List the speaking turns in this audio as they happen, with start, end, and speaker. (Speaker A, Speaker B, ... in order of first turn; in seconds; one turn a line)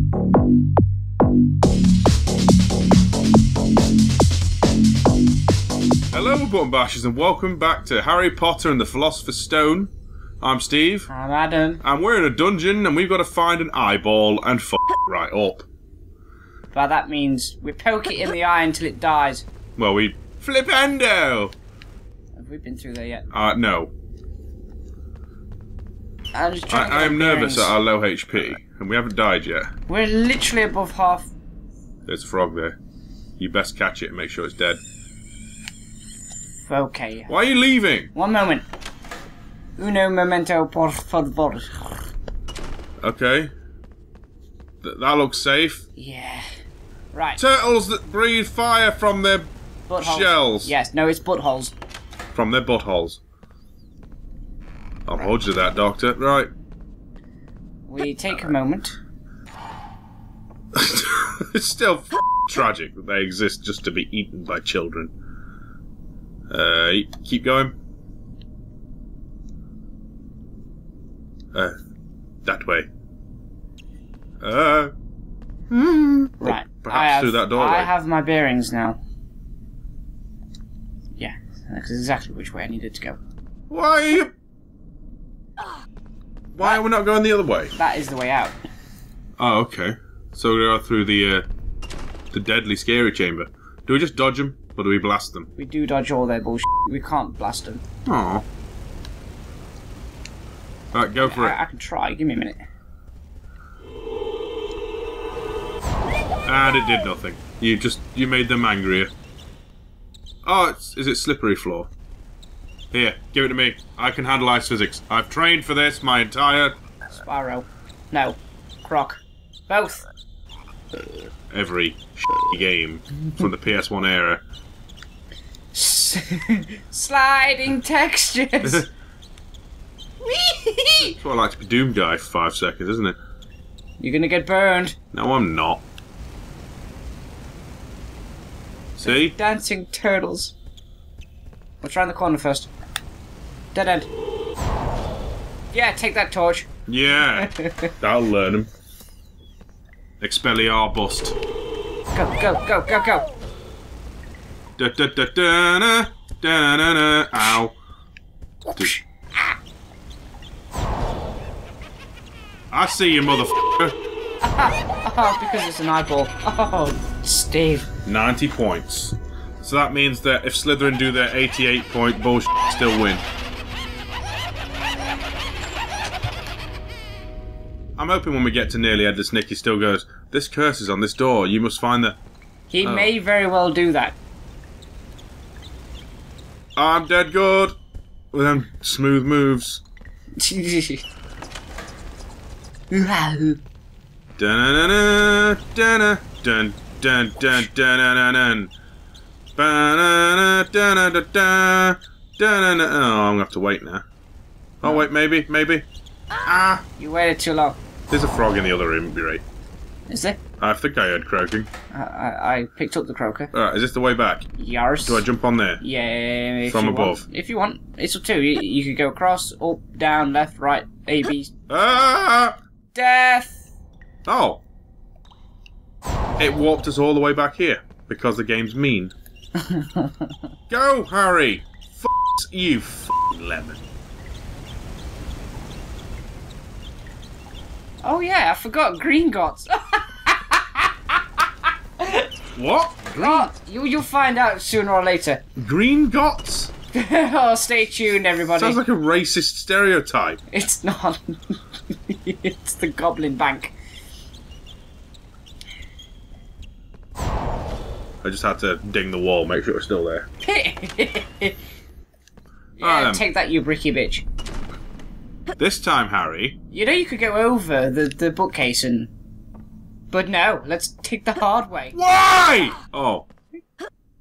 Speaker A: 6.1-11.1
Speaker B: 11.1-11.8
Speaker A: 11.8-15.7
Speaker B: 16.7-19.4
Speaker A: 19.8-21.5
Speaker B: 22.4-23.3
Speaker A: 23.3-23.9
Speaker B: 26.3-27.8
Speaker A: 26.7-29.7
Speaker B: 29.9-31.3
Speaker A: 32.1-32.8
Speaker A: 33.4-34.8
Speaker B: 36.7-37.3
Speaker A: 37.3-38.1
Speaker B: 38.1-38.6
Speaker B: 39.8-41.7
Speaker A: 43.0-43.5
Speaker A: 44.8-45.9
Speaker B: 46.0-46.5
Speaker B: 47.1-47.4
Speaker A: 47.4-50.7
Speaker B: 49.9-51.8
Speaker A: 52.3-53.2
Speaker A: 55.1-56.5
Speaker B: 57.9-59.0
Speaker A: 60.7-65.1
Speaker A: 66.5-67.8
Speaker A: 72.5-72.9
Speaker A: 74.4-74.9
Speaker A: 75.7-77.9
Speaker B: 76.4-79.0
Speaker B: 81.2-83.2
Speaker A: 83.7-84.3
Speaker A: 86.5-87.7
Speaker B: 87.8-88.5
Speaker A: 89.4-91.5
Speaker A: 92.3-95.5
Speaker B: 95.6-97.8
Speaker A: 98.1-98.5
Speaker A: 100.9-101.6
Speaker B: 101.2-102.6
Speaker A: 106.5-109.1
Speaker A: 110.4-111.9
Speaker A: 112.9-116.8
Speaker B: 117.2-120.0
Speaker A: 121.5-124.4
Speaker B: 125.7-128.9
Speaker B: 130.2-131.2
Speaker A: 131.1-133.2
Speaker B: 134.0-135.0
Speaker A: 135.1-135.8
Speaker B: 139.0-140.6
Speaker A: 139.0-139.3
Speaker B: 141.8-142.7
Speaker B: 143.7-144.1
Speaker B: 145.7-146.7
Speaker A: 146.9-148.7
Speaker B: 147.3-147.9
Speaker A: 150.2-151.4
Speaker B: 152.1-153.3
Speaker A: 154.8-157.8
Speaker B: 158.7-159.5
Speaker A: 162.7-164.0
Speaker B: 164.4-167.9
Speaker A: 168.1-173.2
Speaker A: 178.0-182.2
Speaker B: 182.7-184.2
Speaker A: 182.8-183.1
Speaker A: 186.8-187.8
Speaker A: 188.3-189.8
Speaker B: 190.4-191.1
Speaker B: 192.9-193.6
Speaker A: 194.4-198.7
Speaker A: 199.6-204.0
Speaker A: 204.8-205.9
Speaker A: 206.4-206.8
Speaker B: 207.0-207.8
Speaker A: 208.1-209.4
Speaker B: 210.1-210.4
Speaker A: 210.6-211.7
Speaker B: 211.9-213.5
Speaker A: 213.5-214.5
Speaker B: 214.6-215.3
Speaker A: 215.0-215.8
Speaker B: 215.8-221.5
Speaker A: 216.7-217.2
Speaker A: 221.7-222.6
Speaker B: 222.9-223.7
Speaker A: 224.3-224.6
Speaker A: 226.4-229.1
Speaker B: 229.7-230.1
Speaker A: 230.7-233.8
Speaker B: 238.0-241.5
Speaker B: 242.0-242.3
Speaker A: 242.6-243.5
Speaker B: 243.2-245.4
Speaker A: 245.6-246.7
Speaker B: 246.9-248.8
Speaker A: 248.6-250.4
Speaker B: 250.5-253.7
Speaker A: 258.2-260.3
Speaker B: 260.4-261.6
Speaker A: 262.8-263.2
Speaker B: 262.8-264.2
Speaker A: 265.6-266.6
Speaker B: 266.7-269.1
Speaker B: 270.1-272.0
Speaker A: 271.9-273.3